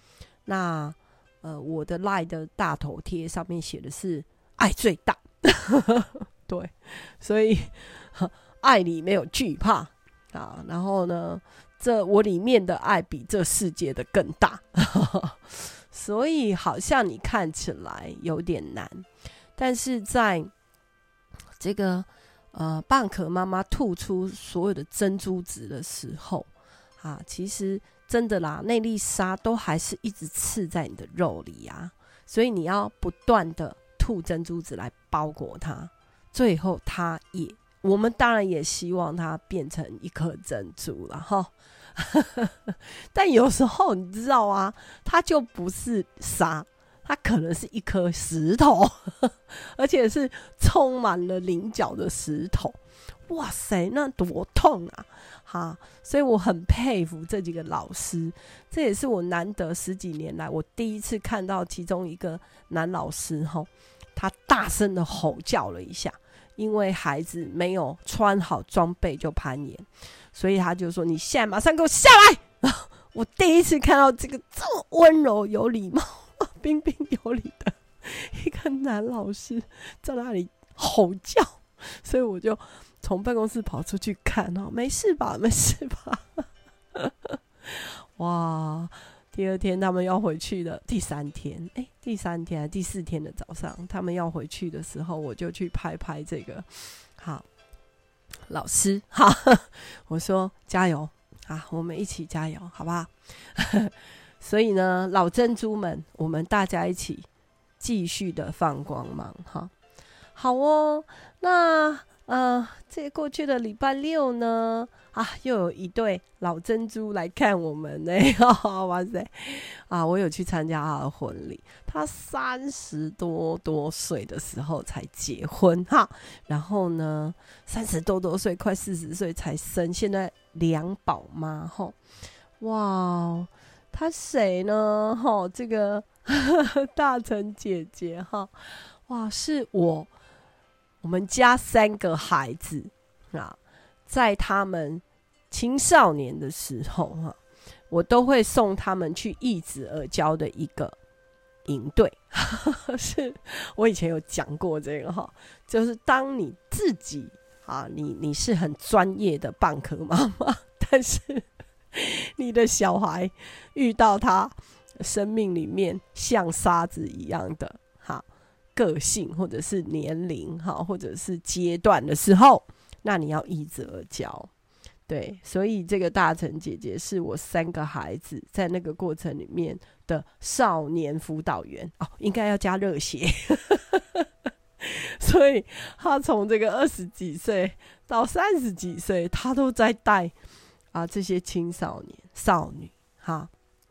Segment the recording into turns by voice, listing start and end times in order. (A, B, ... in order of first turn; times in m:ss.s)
0:00.4-0:19.0 A
0:19.6-0:20.5 A
0:21.6-0:26.5 A
0:27.0-1:26.4 A
1:26.9-1:37.4 A
1:38.5-1:47.3 A
1:47.8-1:49.7 A
1:50.3-2:12.0 A
2:12.6-2:20.1 A
2:21.0-2:27.4 A
2:27.9-2:31.0 A
2:31.6-2:54.5 A
2:55.1-3:04.2 A
3:04.8-3:10.3 A
3:10.9-3:13.5 A